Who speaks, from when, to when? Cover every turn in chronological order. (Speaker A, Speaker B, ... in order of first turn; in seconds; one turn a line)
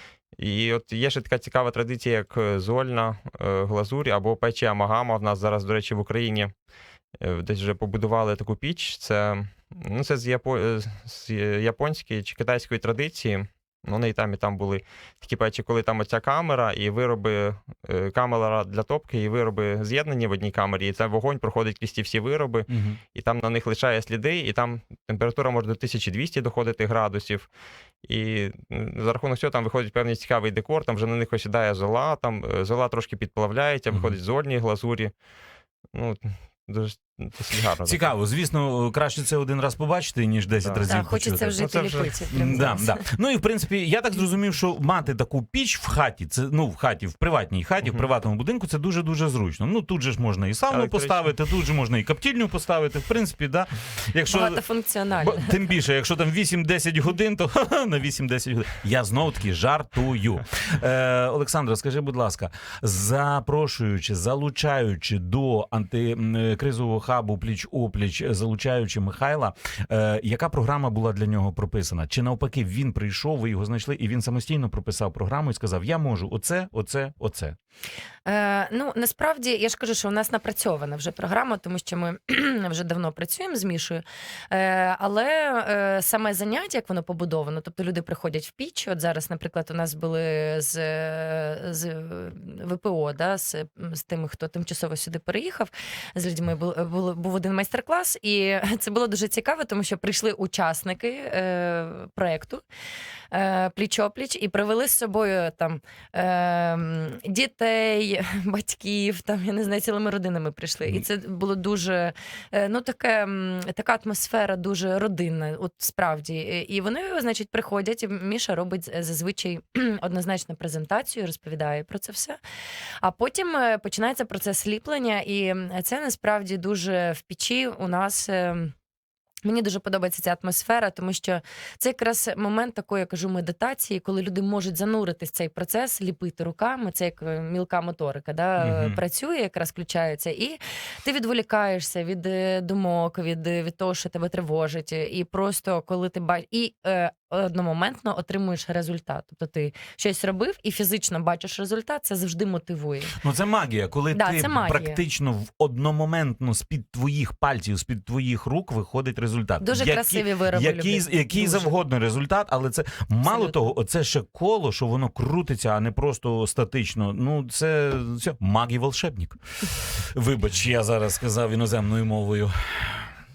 Speaker A: 0.3-6.5
Speaker A: 7.2-27.5
Speaker B: 22.7-23.0
Speaker A: 28.0-35.1
Speaker B: 33.9-34.2
Speaker A: 35.9-38.1
Speaker B: 37.8-54.6
Speaker A: 40.6-42.6
Speaker C: 40.9-43.0
Speaker A: 47.8-48.1
Speaker A: 50.7-51.2
Speaker C: 54.3-55.6
Speaker B: 55.2-77.5
Speaker C: 78.2-102.6
Speaker C: 103.3-122.4
Speaker C: 123.0-128.7
Speaker C: 129.4-153.2
Speaker B: 138.6-139.0
Speaker B: 153.2-173.1
Speaker C: 154.1-155.0
Speaker C: 159.6-161.7
Speaker C: 163.2-163.7